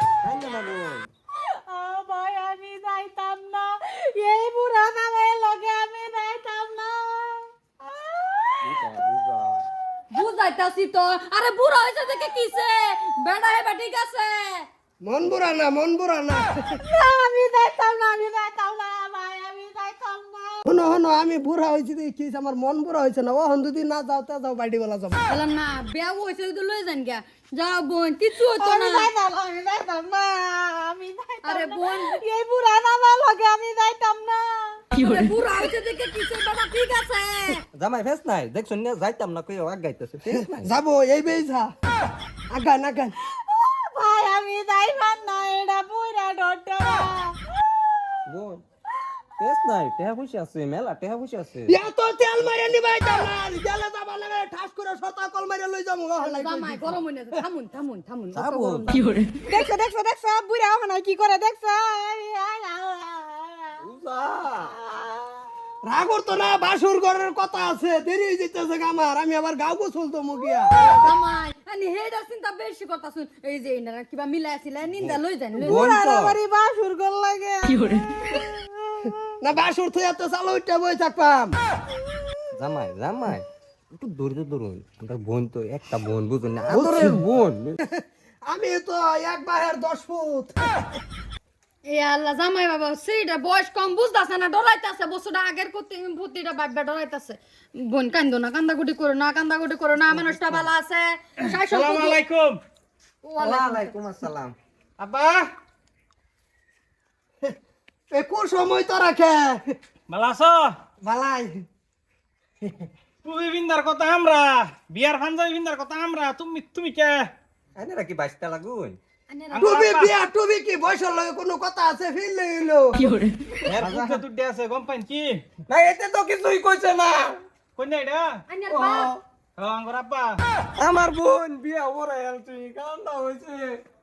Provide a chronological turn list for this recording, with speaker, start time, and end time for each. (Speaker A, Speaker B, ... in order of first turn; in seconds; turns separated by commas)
Speaker A: 0.2-1.1, Speaker B: 1.4-8.8, Speaker A: 8.6-9.7, Speaker C: 10.1-14.7, Speaker D: 15.0-16.6, Speaker B: 16.8-20.6, Speaker D: 20.6-25.2, Speaker C: 25.3-29.1, Speaker B: 28.4-34.8, Speaker C: 31.4-32.2, Speaker C: 34.9-37.6, Speaker A: 37.7-40.7, Speaker D: 40.3-41.7, Speaker D: 42.5-43.1, Speaker B: 43.3-47.4, Speaker A: 48.2-48.6, Speaker A: 49.4-51.7, Speaker D: 51.7-56.9, Speaker C: 56.2-59.2, Speaker A: 58.3-59.0, Speaker B: 59.4-63.8, Speaker A: 63.8-64.7, Speaker B: 64.6-65.3, Speaker D: 65.8-70.7, Speaker C: 70.8-75.9, Speaker A: 74.8-76.4, Speaker B: 75.6-78.5, Speaker D: 79.4-81.5, Speaker A: 82.5-87.8, Speaker D: 86.7-87.2, Speaker D: 88.5-90.6, Speaker C: 91.9-102.2, Speaker A: 100.2-100.7, Speaker E: 101.6-102.6, Speaker C: 103.2-103.9, Speaker A: 103.4-104.5, Speaker E: 105.0-105.5, Speaker D: 108.1-109.7, Speaker E: 110.1-110.7, Speaker D: 111.0-111.6, Speaker E: 113.2-117.2, Speaker A: 117.8-119.0, Speaker C: 119.3-119.8, Speaker E: 119.5-120.1, Speaker D: 119.5-123.0, Speaker A: 123.6-124.2, Speaker E: 123.7-125.4, Speaker A: 125.7-127.4, Speaker E: 127.8-128.3, Speaker C: 128.5-129.1, Speaker A: 128.7-129.2, Speaker E: 129.6-130.4, Speaker A: 130.8-133.8